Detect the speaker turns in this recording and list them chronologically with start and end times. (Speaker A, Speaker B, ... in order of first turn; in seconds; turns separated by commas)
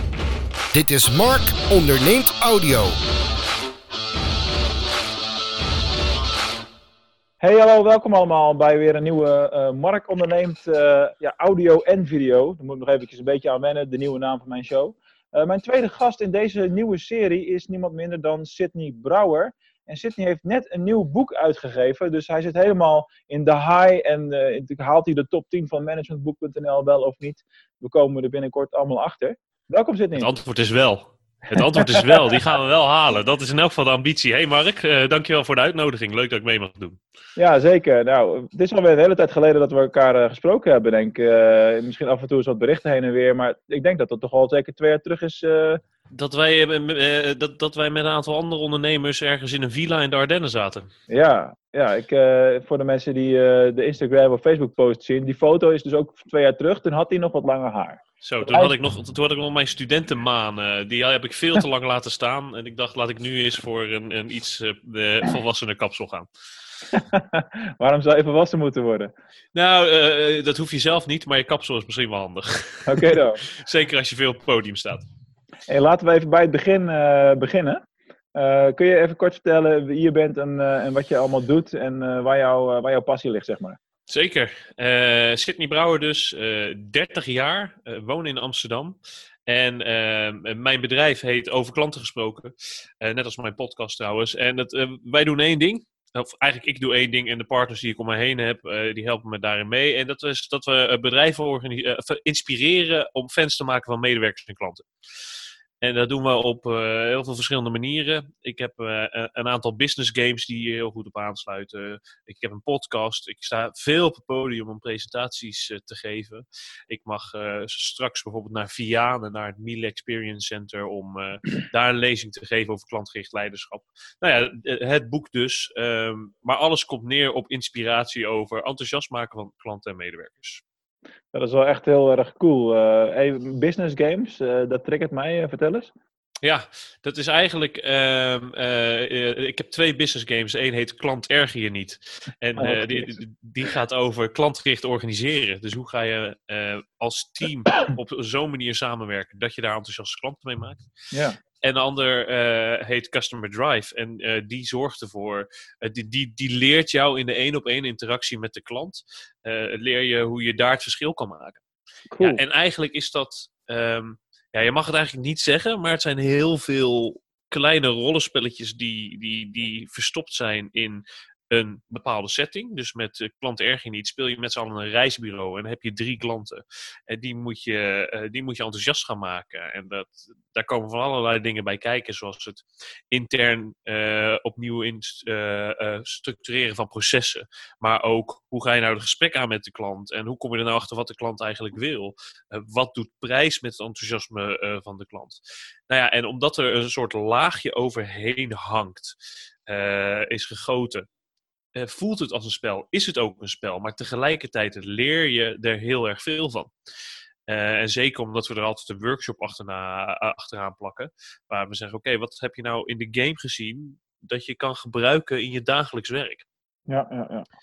Speaker A: 0.7-3.0, Speaker B: 7.4-30.3, Speaker C: 30.2-37.0, Speaker B: 31.6-32.4, Speaker B: 37.4-45.8, Speaker C: 46.1-50.9, Speaker B: 51.1-58.8, Speaker C: 58.2-66.3, Speaker B: 66.9-69.1, Speaker C: 69.5-75.1, Speaker B: 72.9-73.5, Speaker B: 75.7-77.8, Speaker B: 78.3-83.8, Speaker C: 84.1-89.0, Speaker C: 89.5-104.9, Speaker C: 105.8-130.6, Speaker B: 131.3-135.9, Speaker C: 136.4-150.9, Speaker B: 142.6-143.1, Speaker B: 151.1-151.4, Speaker C: 151.6-161.6, Speaker B: 162.1-162.4, Speaker C: 162.2-199.2, Speaker C: 199.7-201.1, Speaker C: 201.8-206.7, Speaker C: 207.5-216.4, Speaker B: 216.9-217.5